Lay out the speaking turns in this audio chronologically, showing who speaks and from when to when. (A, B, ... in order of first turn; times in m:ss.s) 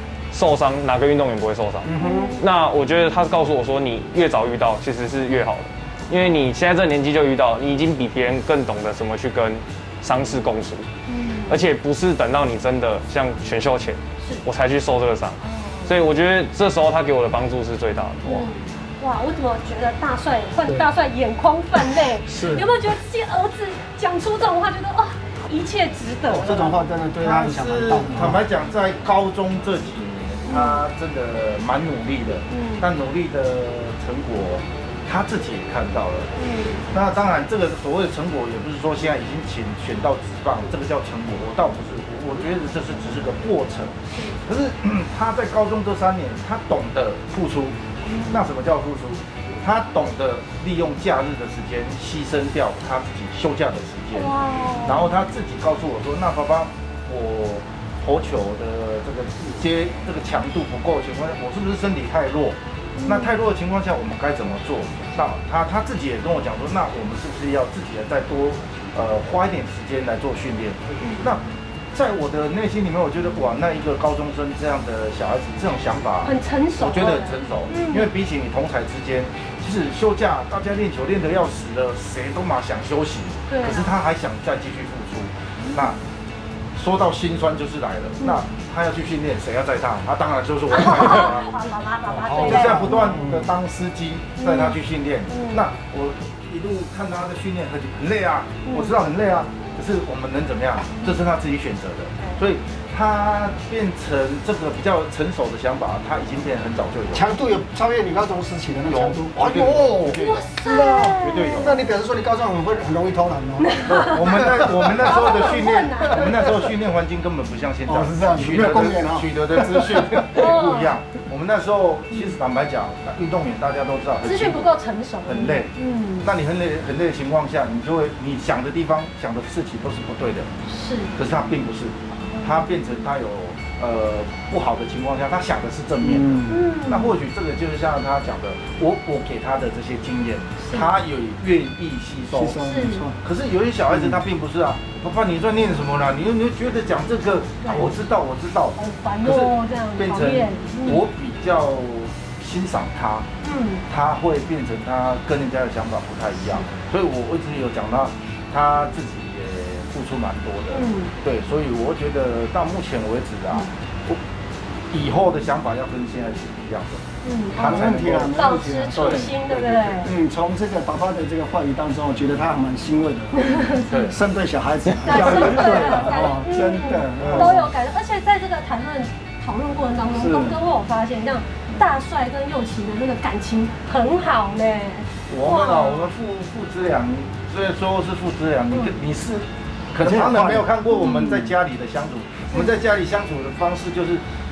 0:00.3-0:10.9 A
0:01.8-0:02.4 B
0:02.0-0:02.4 C
0:11.1-0:11.6 C
0:11.5-0:18.5 A
0:15.4-0:16.0 C
0:18.2-0:26.8 C
0:22.2-0:22.7 B
0:26.3-0:28.4 B
0:27.2-0:36.3 D
0:30.5-0:30.8 C
0:32.5-0:32.8 C
0:36.4-0:36.9 C
0:36.9-0:47.8 D
0:44.1-0:44.4 C
0:48.0-0:48.5 C
0:48.3-1:26.0 D
0:54.1-0:55.1 C
1:03.0-1:03.3 C
1:11.0-1:11.3 C
1:16.2-1:18.1 C
1:23.5-1:23.9 C
1:25.6-1:25.9 C
1:26.8-1:31.5 D
1:30.7-1:33.1 C
1:32.1-1:47.3 D
1:32.2-1:33.5 B
1:34.4-1:34.8 C
1:35.3-1:35.6 C
1:38.7-1:39.0 C
1:47.1-1:55.3 B
1:48.9-1:50.5 D
1:50.2-1:51.8 C
1:51.2-1:51.8 D
1:53.6-1:54.4 C
1:53.9-2:04.7 D
1:55.0-1:56.5 C
1:57.9-2:00.3 B
2:00.4-2:01.0 C
2:04.2-2:06.3 C
2:05.3-2:10.5 D
2:10.7-2:11.1 C
2:11.2-2:22.6 D
2:16.0-2:16.6 B
2:16.5-2:17.2 C
2:20.6-2:20.9 C
2:22.3-2:23.2 B
2:22.6-2:23.1 C
2:23.2-2:33.3 D
2:23.9-2:24.2 B
2:27.6-2:27.9 C
2:28.8-2:31.0 C
2:33.4-2:33.8 C
2:33.9-2:44.2 D
2:40.7-2:41.2 C
2:44.9-2:47.0 D
2:47.2-2:50.1 C
2:47.6-2:50.1 D
2:47.6-2:49.3 B
2:50.0-2:57.7 B
2:53.3-2:54.2 C
2:53.9-2:54.2 D
2:55.0-3:06.1 C
2:55.0-2:56.1 D
2:57.2-2:57.6 D
3:00.1-3:00.6 B
3:05.3-3:14.2 D
3:10.0-3:11.5 B